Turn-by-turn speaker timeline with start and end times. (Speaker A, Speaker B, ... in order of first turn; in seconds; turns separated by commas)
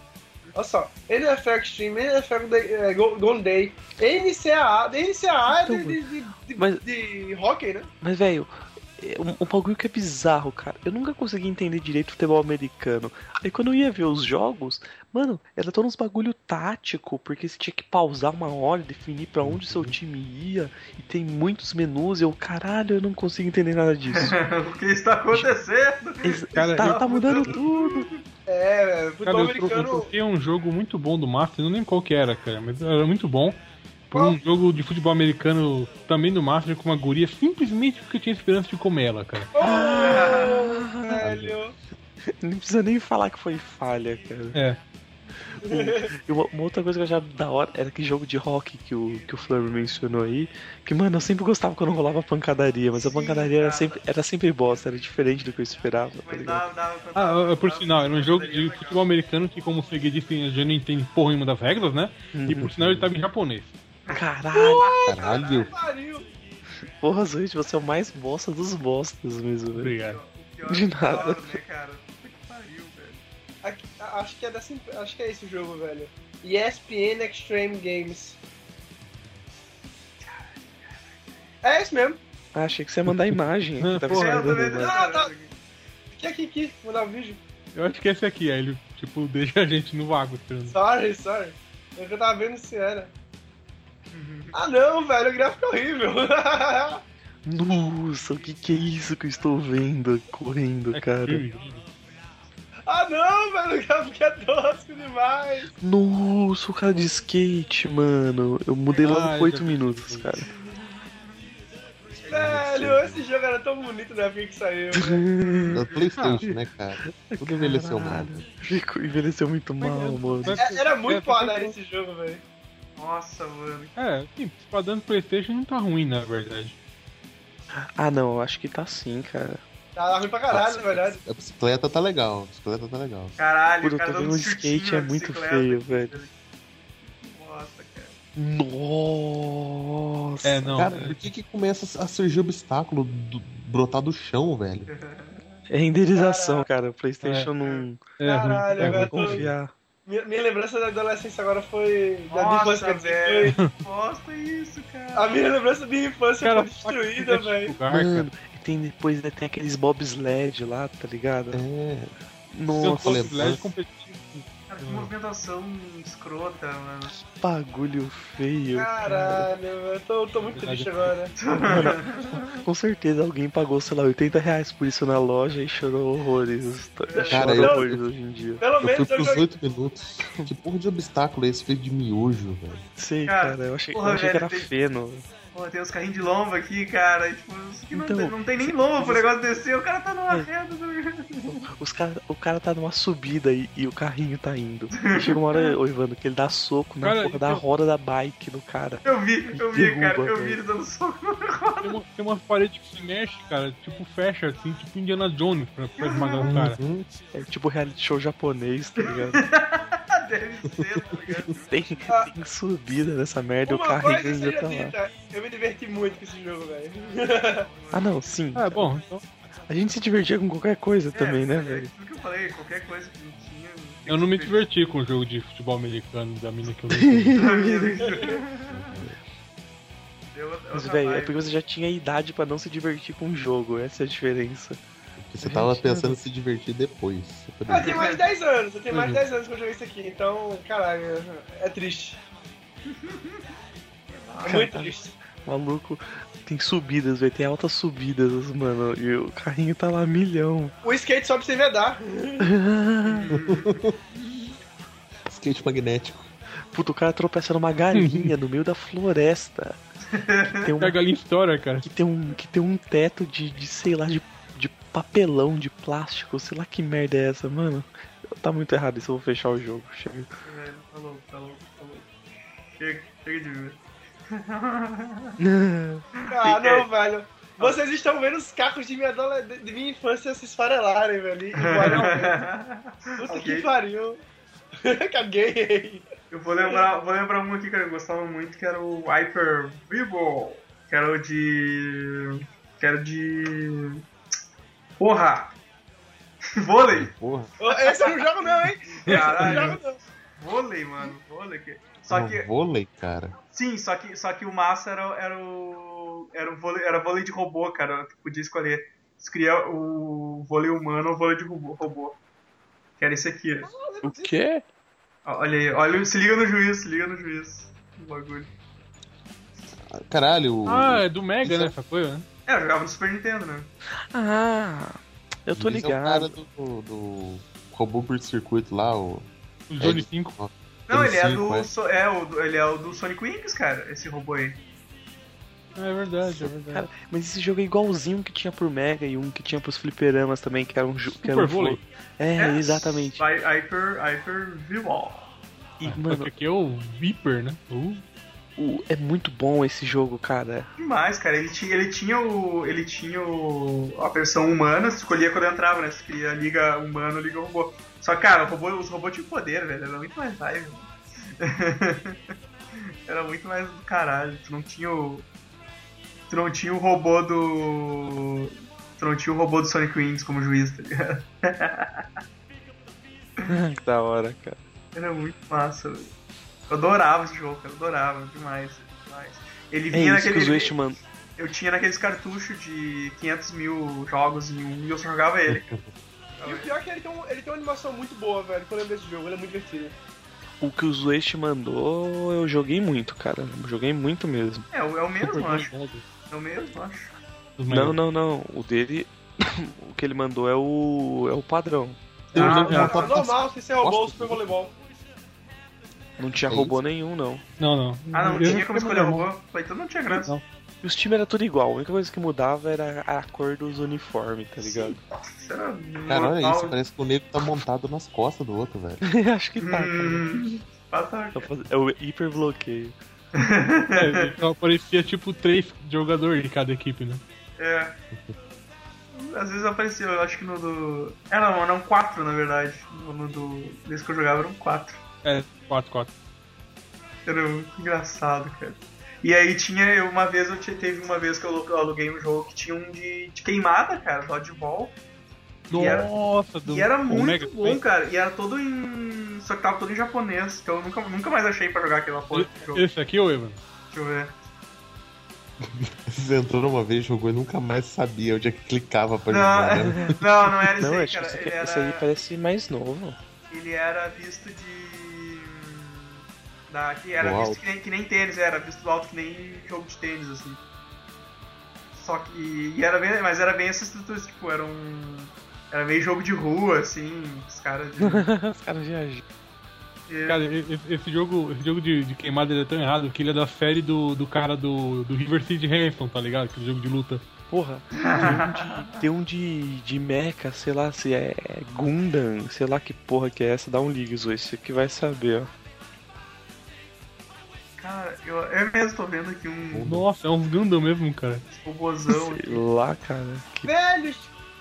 Speaker A: 0.5-7.9, Speaker B: 5.5-6.0, Speaker B: 6.5-6.8, Speaker B: 8.0-24.4, Speaker C: 19.4-19.9, Speaker D: 24.1-28.2, Speaker B: 26.2-28.1, Speaker E: 26.6-27.5, Speaker A: 28.5-30.1, Speaker E: 29.2-39.5, Speaker A: 34.1-34.4, Speaker A: 39.5-41.7, Speaker B: 39.6-41.3, Speaker D: 40.0-40.6, Speaker C: 41.2-41.6, Speaker B: 42.4-44.6, Speaker E: 44.5-44.8, Speaker A: 45.6-46.1, Speaker B: 45.6-56.6, Speaker D: 49.1-49.3, Speaker D: 52.9-54.0, Speaker D: 56.2-59.0, Speaker E: 57.1-63.7, Speaker B: 62.3-62.7, Speaker C: 62.5-63.1, Speaker B: 64.1-64.9, Speaker A: 64.5-66.3, Speaker D: 64.8-65.8, Speaker C: 65.0-65.7, Speaker B: 67.0-69.9, Speaker E: 69.8-70.2, Speaker D: 70.0-73.2, Speaker B: 70.7-71.6, Speaker A: 73.6-78.4, Speaker D: 80.2-81.0, Speaker A: 81.6-82.2, Speaker B: 82.5-85.0, Speaker E: 83.8-84.6, Speaker D: 84.1-85.5, Speaker A: 84.8-85.3, Speaker A: 86.1-87.4, Speaker E: 87.7-90.8, Speaker A: 90.7-93.1, Speaker D: 94.1-94.5, Speaker A: 94.5-97.0, Speaker B: 97.4-101.4, Speaker E: 100.9-101.8, Speaker A: 102.9-105.7, Speaker B: 105.8-110.5, Speaker E: 109.0-110.3, Speaker D: 110.5-111.4, Speaker C: 112.2-113.2, Speaker A: 112.3-115.2, Speaker B: 114.9-115.8, Speaker D: 115.4-116.1, Speaker C: 115.7-118.5, Speaker E: 116.2-116.5, Speaker B: 117.0-120.6, Speaker E: 119.8-121.7, Speaker A: 120.5-122.4, Speaker D: 123.0-123.9, Speaker E: 124.0-126.8, Speaker B: 128.0-129.6, Speaker A: 129.9-131.2, Speaker C: 130.5-133.3, Speaker D: 133.4-136.3, Speaker B: 133.8-136.1, Speaker D: 137.0-138.2, Speaker B: 138.3-141.1, Speaker E: 140.4-141.2, Speaker C: 140.8-144.9, Speaker D: 144.9-145.6, Speaker B: 145.7-148.0, Speaker A: 146.1-146.7, Speaker E: 147.2-147.5, Speaker E: 148.2-149.5, Speaker A: 148.2-149.4, Speaker B: 148.8-149.7, Speaker A: 150.1-153.7, Speaker D: 152.3-155.4, Speaker A: 155.1-157.8, Speaker E: 156.4-158.3, Speaker B: 157.9-161.6, Speaker C: 161.5-162.1, Speaker B: 162.5-163.2, Speaker C: 162.7-163.7, Speaker E: 162.8-165.1, Speaker D: 164.7-167.1, Speaker B: 167.2-169.4, Speaker A: 168.7-171.3, Speaker E: 170.4-171.3, Speaker D: 171.4-172.6, Speaker B: 171.7-178.6, Speaker D: 177.1-177.4, Speaker A: 177.1-177.8, Speaker C: 177.3-178.0, Speaker A: 178.6-179.5, Speaker C: 178.8-182.8, Speaker B: 180.2-180.5, Speaker B: 183.0-185.2, Speaker D: 183.3-184.7, Speaker D: 185.5-191.6, Speaker B: 187.9-189.3, Speaker B: 191.5-200.6, Speaker D: 194.9-195.7, Speaker E: 197.0-197.6, Speaker D: 199.0-202.0, Speaker E: 201.8-206.8, Speaker D: 206.0-206.5, Speaker C: 206.4-207.1, Speaker B: 207.3-209.4, Speaker D: 209.0-212.1, Speaker B: 211.7-214.9, Speaker A: 212.1-212.3, Speaker A: 213.6-217.7, Speaker D: 217.0-218.3, Speaker B: 217.9-218.9, Speaker E: 218.5-219.2, Speaker B: 219.7-221.9, Speaker D: 221.1-224.6, Speaker E: 224.1-227.4, Speaker B: 226.9-228.0, Speaker D: 227.3-229.1, Speaker A: 227.9-228.4, Speaker C: 228.7-229.2, Speaker D: 230.3-231.4, Speaker B: 230.7-234.8, Speaker C: 235.2-238.1, Speaker B: 235.4-236.2, Speaker A: 237.7-242.2, Speaker D: 237.8-238.3, Speaker E: 238.9-239.2, Speaker D: 242.9-243.4, Speaker D: 244.1-244.7, Speaker A: 244.4-245.1, Speaker B: 244.4-250.7, Speaker A: 250.8-252.5, Speaker B: 252.4-253.3, Speaker D: 253.1-254.6, Speaker C: 253.3-253.9, Speaker C: 255.3-256.3, Speaker B: 256.7-259.8, Speaker E: 257.9-258.3, Speaker D: 260.1-260.7, Speaker B: 260.6-261.0, Speaker E: 260.8-261.8, Speaker B: 261.8-270.3, Speaker D: 270.4-272.1, Speaker D: 272.8-275.4, Speaker B: 275.4-276.0, Speaker D: 276.2-276.9, Speaker A: 276.3-282.4, Speaker D: 281.6-283.7, Speaker A: 283.2-284.2, Speaker A: 284.8-286.1, Speaker D: 286.3-294.0, Speaker D: 295.0-295.5, Speaker D: 296.6-297.1, Speaker C: 296.9-297.5, Speaker A: 297.6-300.0, Speaker D: 297.7-298.1, Speaker D: 299.0-299.8, Speaker E: 299.4-299.8, Speaker D: 300.4-302.5, Speaker C: 302.1-303.4, Speaker D: 303.5-312.2, Speaker D: 313.0-313.7, Speaker A: 313.6-314.4, Speaker B: 314.0-314.6, Speaker D: 315.2-318.5, Speaker C: 319.9-321.7, Speaker E: 320.6-322.2, Speaker D: 322.5-323.7, Speaker B: 324.1-326.4, Speaker C: 325.5-329.3, Speaker E: 329.7-330.4, Speaker C: 329.8-331.7, Speaker D: 330.9-334.6, Speaker E: 335.8-336.9, Speaker B: 336.4-343.2, Speaker E: 341.2-341.8, Speaker D: 342.4-345.3, Speaker B: 345.8-346.3, Speaker E: 345.8-348.0, Speaker B: 348.6-350.7, Speaker D: 350.8-362.2, Speaker D: 363.1-365.2, Speaker D: 366.3-372.0, Speaker B: 373.4-374.6, Speaker D: 374.9-376.1, Speaker D: 376.7-380.9, Speaker B: 379.9-381.0, Speaker D: 381.4-385.7, Speaker C: 385.5-385.9, Speaker D: 386.4-386.7, Speaker A: 386.4-389.9, Speaker B: 390.6-394.6, Speaker D: 394.7-395.7, Speaker E: 395.2-396.0, Speaker D: 396.3-397.1, Speaker E: 397.6-398.0, Speaker B: 397.7-402.0, Speaker C: 402.3-404.5, Speaker D: 402.3-403.1, Speaker E: 402.4-402.9, Speaker A: 402.7-404.7, Speaker B: 406.2-407.4, Speaker C: 406.4-406.8, Speaker E: 407.6-409.3, Speaker D: 408.1-410.3, Speaker E: 410.1-410.4, Speaker B: 410.8-415.0, Speaker D: 414.6-416.8, Speaker C: 416.1-419.0, Speaker B: 419.0-420.3, Speaker D: 419.6-421.5, Speaker B: 421.3-422.9, Speaker D: 423.3-424.4, Speaker E: 423.9-427.2, Speaker D: 427.6-428.0, Speaker D: 429.1-435.0, Speaker E: 435.2-436.1, Speaker D: 437.2-444.9, Speaker E: 445.7-447.8, Speaker D: 445.7-446.1, Speaker D: 446.6-452.8, Speaker E: 452.3-453.6, Speaker D: 453.9-454.4, Speaker C: 455.6-460.2, Speaker D: 459.3-462.0, Speaker B: 460.8-463.2, Speaker D: 463.5-470.6, Speaker C: 467.2-467.6, Speaker D: 471.9-478.3, Speaker B: 478.0-479.2, Speaker D: 480.1-480.4, Speaker E: 480.3-487.2, Speaker B: 487.5-495.5, Speaker D: 487.9-489.0, Speaker D: 497.8-499.9, Speaker C: 499.7-500.1, Speaker E: 499.8-501.4, Speaker D: 501.5-502.6, Speaker B: 502.1-503.7, Speaker A: 503.6-504.3